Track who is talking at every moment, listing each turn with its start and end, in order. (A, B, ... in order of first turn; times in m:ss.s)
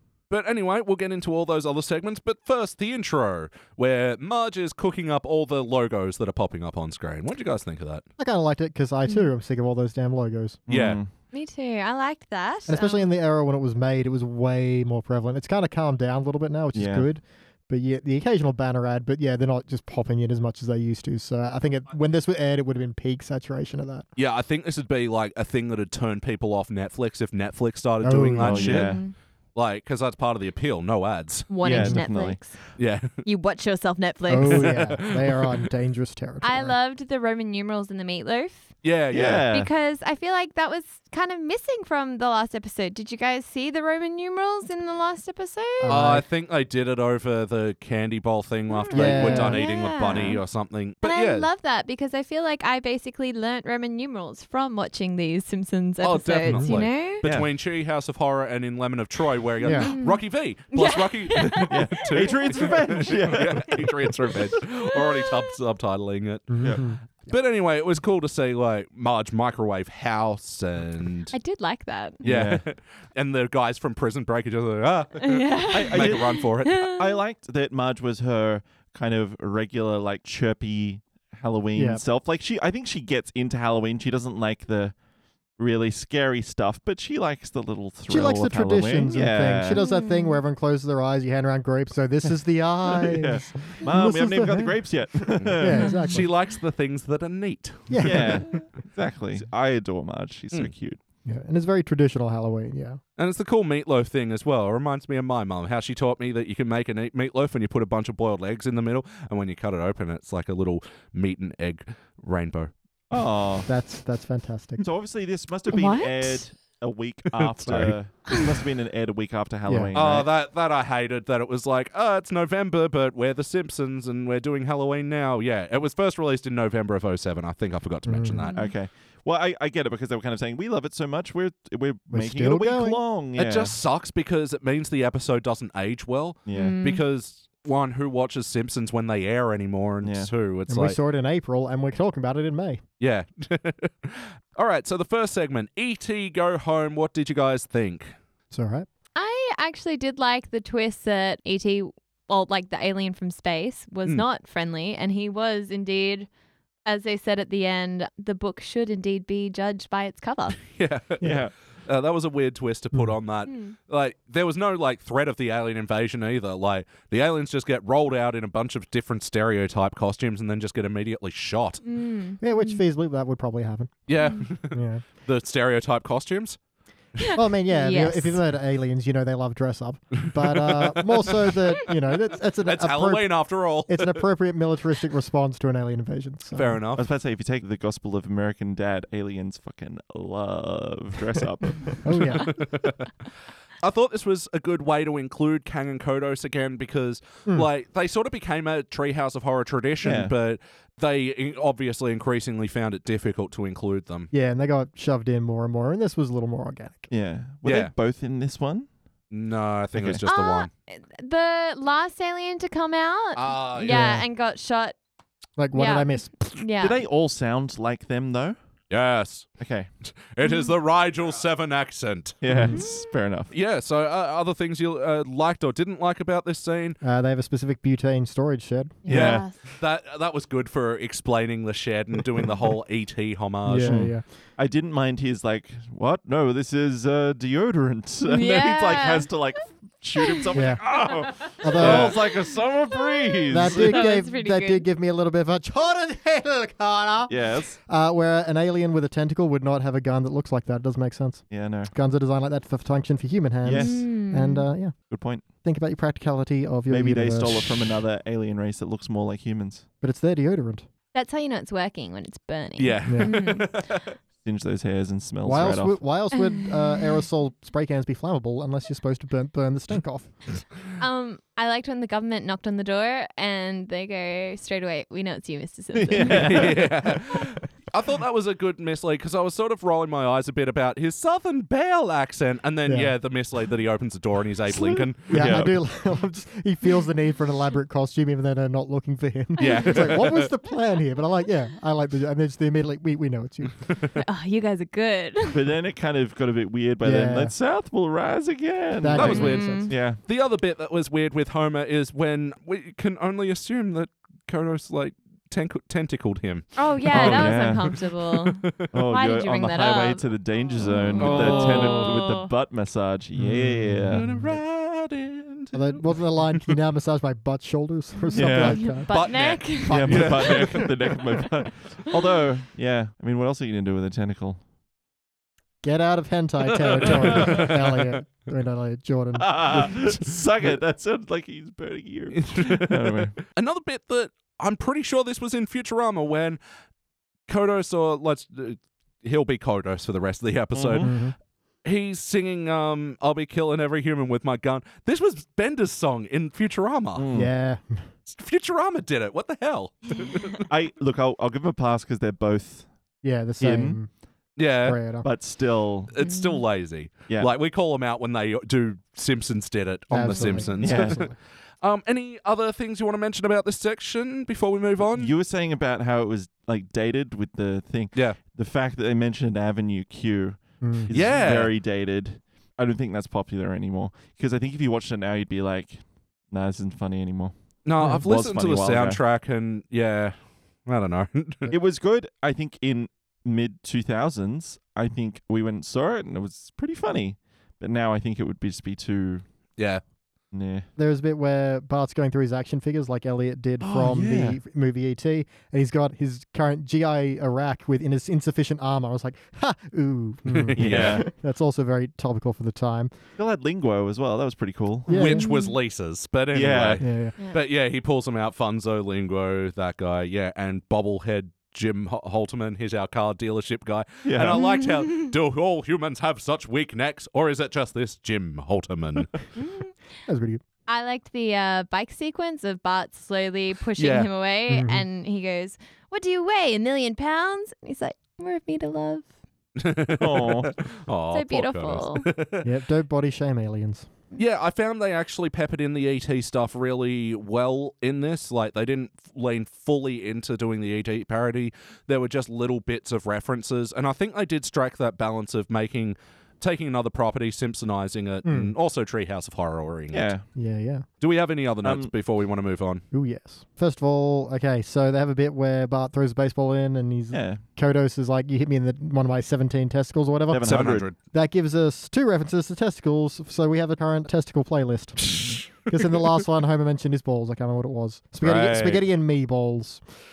0:00.3-0:08.0 A
0:08.2-0:10.6 B
0:10.7-0:11.1 C
0:10.7-0:11.0 A
0:11.3-0:13.1 D
0:12.7-0:24.0 B
0:16.7-0:17.1 C
0:24.2-0:29.0 A
0:28.0-0:28.9 B
0:28.4-0:29.0 C
0:28.7-0:29.1 D
0:29.5-0:31.5 A
0:31.5-0:32.6 D
0:31.6-0:32.4 C
0:31.7-0:32.0 B
0:32.8-0:33.2 A
0:33.2-0:34.8 D
0:34.3-0:36.8 B
0:34.5-0:35.4 A
0:36.4-0:38.7 D
0:38.8-0:39.5 A
0:39.1-0:39.7 C
0:39.5-0:46.0 D
0:45.8-0:46.2 B
0:45.9-0:51.5 A
0:48.7-0:50.4 D
0:48.9-0:49.6 B
0:51.0-0:57.2 D
0:56.0-1:11.3 A
0:56.4-0:56.7 B
0:57.2-0:57.5 C
0:59.6-0:59.9 B
0:59.8-1:03.0 D
1:01.5-1:04.1 C
1:04.9-1:05.5 D
1:06.5-1:07.0 B
1:11.3-1:12.2 D
1:12.2-1:12.6 C
1:12.2-1:16.9 A
1:15.2-1:17.2 D
1:15.7-1:25.0 C
1:21.7-1:22.0 B
1:25.6-1:29.8 C
1:28.1-1:34.8 B
1:29.7-1:30.4 D
1:32.9-1:36.2 C
1:35.4-1:38.4 A
1:35.6-1:36.3 B
1:35.7-1:36.1 D
1:37.9-1:38.6 B
1:38.0-1:41.0 C
1:41.2-1:43.0 B
1:43.2-1:52.7 A
1:53.1-1:53.7 C
1:53.7-1:54.8 B
1:54.8-2:00.3 C
1:55.7-1:56.4 D
1:57.4-1:57.9 A
1:57.6-1:57.9 B
1:59.7-1:59.9 B
1:59.9-2:08.5 A
2:08.0-2:08.4 B
2:08.4-2:08.7 D
2:08.5-2:13.8 C
2:12.1-2:13.0 B
2:13.4-2:21.0 A
2:16.4-2:16.8 C
2:16.5-2:17.0 D
2:20.0-2:20.3 C
2:20.7-2:22.8 B
2:23.0-2:28.1 A
2:28.5-2:28.9 B
2:29.2-2:36.3 D
2:36.8-2:40.6 D
2:40.7-2:51.8 A
2:41.2-2:41.5 C
2:43.4-2:43.7 D
2:51.8-2:52.8 D
2:52.4-2:54.1 B
2:54.1-2:56.6 A
2:54.2-2:54.5 D
2:54.7-2:55.0 B
2:57.2-2:58.4 D
2:57.3-3:06.8 B
3:02.6-3:04.2 A
3:06.5-3:07.0 A
3:06.9-3:12.2 C
3:12.0-3:12.5 B
3:12.3-3:13.1 A
3:13.8-3:24.3 A
3:20.0-3:20.3 C
3:24.3-3:27.1 B
3:27.1-3:28.9 C
3:27.6-3:27.9 A
3:29.3-3:30.7 A
3:29.9-3:30.2 C
3:30.3-3:35.0 D
3:33.4-3:34.2 A
3:33.9-3:34.2 B
3:35.6-3:36.3 B
3:35.7-3:37.0 D
3:36.8-3:38.6 C
3:38.9-3:39.5 A
3:39.6-3:39.9 C
3:40.3-3:42.4 A
3:40.4-3:40.7 D
3:42.4-3:43.5 C
3:42.5-3:42.8 B
3:42.7-3:43.0 D
3:43.5-3:47.0 A
3:47.0-3:49.0 B
3:49.0-3:49.6 D
3:49.0-3:49.4 C
3:49.1-3:54.2 A
3:53.6-3:54.2 B
3:53.8-4:04.0 C
3:58.2-3:59.3 D
4:00.2-4:00.4 D
4:00.5-4:00.9 B
4:01.6-4:02.0 D
4:01.6-4:02.2 B
4:01.8-4:02.2 A
4:02.9-4:04.8 D
4:03.5-4:07.3 B
4:07.3-4:07.8 C
4:07.8-4:15.0 B
4:11.5-4:11.9 C
4:13.6-4:14.0 C
4:13.8-4:14.7 D
4:15.1-4:15.4 C
4:15.6-4:17.8 B
4:16.9-4:19.8 C
4:20.0-4:20.9 B
4:21.1-4:23.7 D
4:22.8-4:24.0 A
4:23.0-4:23.4 B
4:24.4-4:26.0 C
4:25.4-4:30.6 B
4:26.3-4:27.0 D
4:31.0-4:36.7 D
4:35.9-4:37.1 C
4:36.2-4:45.6 A
4:42.9-4:43.1 B
4:44.7-4:45.8 C
4:45.3-4:54.0 B
4:49.6-4:50.1 D
4:49.6-4:50.1 C
4:49.7-4:50.5 A
4:54.2-4:55.6 D
4:55.5-5:00.2 C
4:57.0-4:57.5 B
4:59.0-4:59.9 B
4:59.1-5:08.7 A
4:59.2-4:59.9 D
5:06.8-5:10.3 D
5:07.1-5:07.9 C
5:08.9-5:14.4 C
5:10.8-5:12.5 D
5:11.2-5:12.2 A
5:13.3-5:14.6 B
5:14.1-5:16.7 A
5:15.7-5:19.1 B
5:18.3-5:21.0 D
5:18.3-5:19.0 C
5:19.1-5:20.8 A
5:19.8-5:24.6 C
5:20.0-5:20.9 B
5:25.8-5:30.1 B
5:26.9-5:28.0 A
5:27.4-5:27.6 C
5:29.3-5:33.4 C
5:32.3-5:36.6 A
5:37.5-5:41.3 A
5:40.7-5:41.1 C
5:41.0-5:41.3 B
5:41.8-5:47.2 A
5:47.1-5:47.5 C
5:47.3-5:48.1 B
5:48.3-5:50.6 A
5:50.7-5:52.9 C
5:53.2-5:54.1 B
5:53.6-5:54.0 C
5:54.6-5:55.0 A
5:54.8-5:55.3 B
5:55.2-5:56.1 C
5:56.1-6:05.3 A
5:56.2-5:56.6 D
6:00.1-6:01.3 B
6:00.3-6:00.7 D
6:00.8-6:01.3 C
6:05.1-6:19.2 C
6:08.1-6:08.4 A
6:10.8-6:11.1 B
6:11.1-6:11.7 A
6:17.8-6:21.7 A
6:21.7-6:29.4 C
6:29.8-6:30.0 A
6:30.5-6:30.9 C
6:31.0-6:43.1 B
6:33.8-6:34.6 C
6:40.5-6:41.2 A
6:40.7-6:41.3 C
6:43.4-6:45.3 C
6:45.1-6:45.5 B
6:45.1-6:59.4 A
6:45.2-6:45.8 D
6:46.5-6:47.0 C
6:47.0-6:47.4 B
6:54.2-6:54.6 C
6:54.5-6:55.2 D
6:59.6-6:59.9 D
7:00.3-7:00.6 B
7:00.9-7:09.3 D
7:04.0-7:04.3 A
7:04.7-7:05.0 B
7:09.8-7:12.6 A
7:10.2-7:10.7 C
7:11.3-7:12.3 D
7:12.6-7:14.1 B
7:14.4-7:30.3 A
7:28.4-7:28.7 B
7:30.1-7:30.4 C
7:30.6-7:31.0 B
7:31.2-7:33.0 A
7:31.8-7:32.1 C
7:33.1-7:50.0 B
7:37.3-7:37.6 C
7:40.5-7:41.1 C
7:40.6-7:41.2 A
7:45.3-7:46.2 A
7:48.4-7:49.0 A